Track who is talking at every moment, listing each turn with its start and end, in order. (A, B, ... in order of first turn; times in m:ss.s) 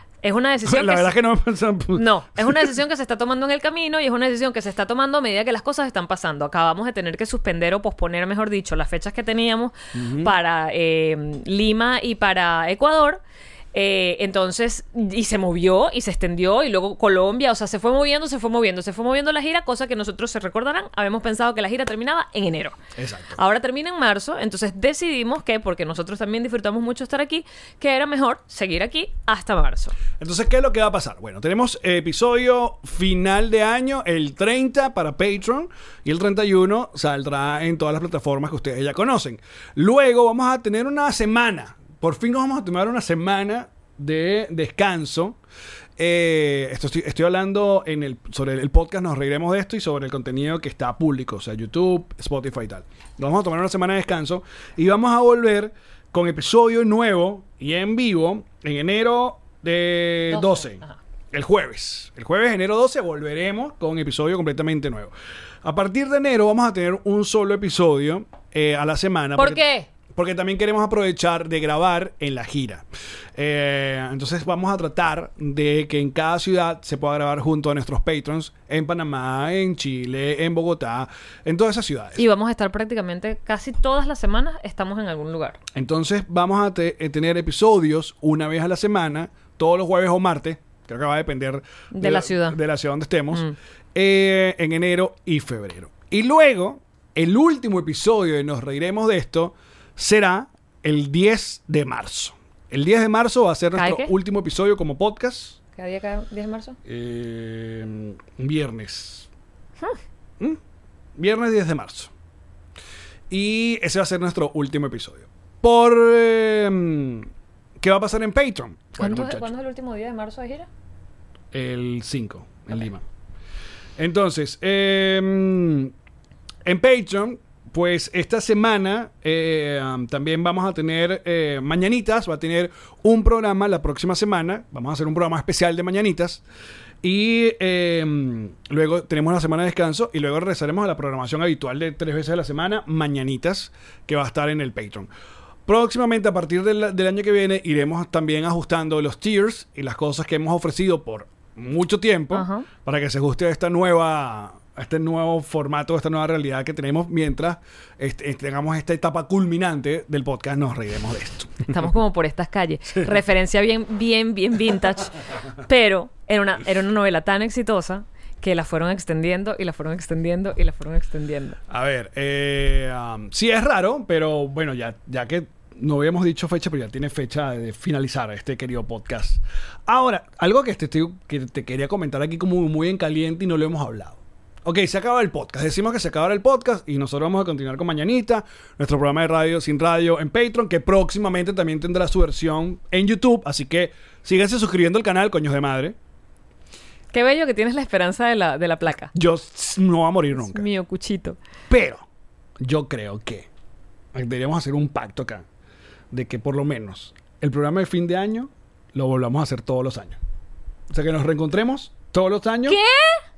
0:00.2-0:01.1 A
0:00.6-0:02.8 B
0:01.9-0:13.2 A
0:09.9-0:10.3 B
0:13.7-0:22.8 A
0:23.0-0:23.4 B
0:23.4-0:30.0 A
0:30.2-0:45.4 B
0:46.0-1:12.8 B
1:00.3-1:01.0 A
1:09.4-1:09.9 A
1:13.4-1:22.2 B
1:22.2-1:25.6 A
1:25.8-1:45.6 B
1:31.9-1:32.6 A
1:43.8-1:44.1 A
1:45.8-1:46.8 A
1:46.8-1:49.3 B
1:51.2-1:52.1 B
1:53.3-1:59.5 B
1:59.0-2:00.7 A
2:01.5-2:03.0 B
2:04.0-2:05.9 B
2:06.6-2:16.4 B
2:17.0-2:25.1 B
2:25.7-2:41.9 B
2:32.3-2:32.7 A
2:41.7-2:51.6 A
2:51.7-3:16.0 B
3:17.1-3:19.1 A
3:19.2-3:20.7 B
3:20.4-3:21.4 A
3:21.7-3:22.0 B
3:22.6-3:23.5 B
3:24.1-3:25.4 B
3:26.1-3:30.2 B
3:30.9-3:32.8 B
3:32.7-3:33.2 A